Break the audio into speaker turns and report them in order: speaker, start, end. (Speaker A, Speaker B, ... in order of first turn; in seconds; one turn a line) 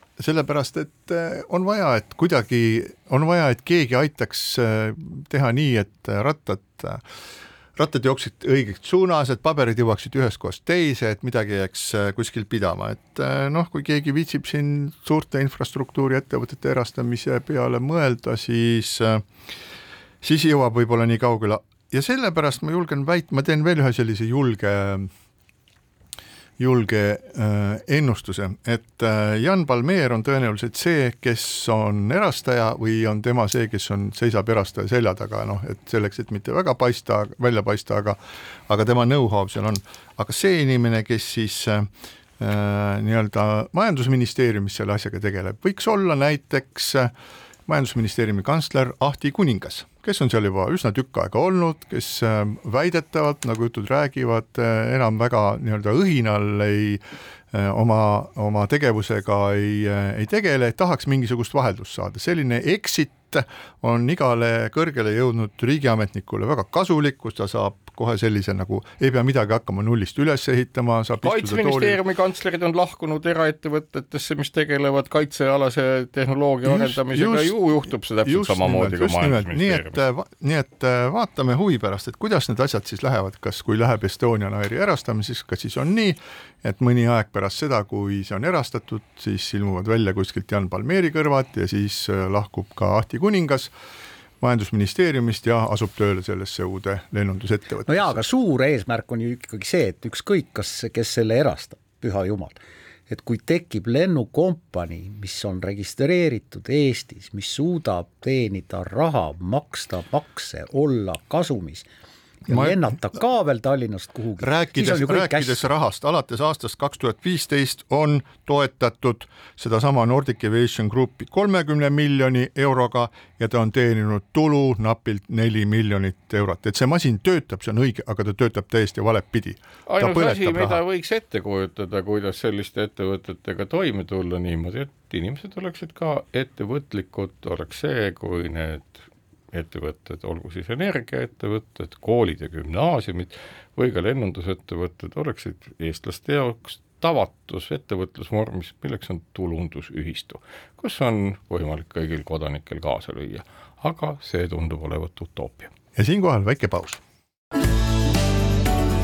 Speaker A: 0.2-7.0
Speaker A: 7.8-19.2
Speaker A: 20.2-25.1
Speaker A: 26.6-47.1
Speaker A: 47.7-72.0
Speaker B: 71.2-80.0
Speaker A: 76.6-77.6
Speaker A: 78.2-93.7
Speaker A: 94.4-98.2
Speaker C: 97.9-102.6
Speaker C: 103.1-111.9
Speaker C: 112.5-115.7
Speaker A: 112.5-112.8
Speaker A: 114.4-130.8
Speaker B: 129.9-155.7
Speaker A: 155.9-157.0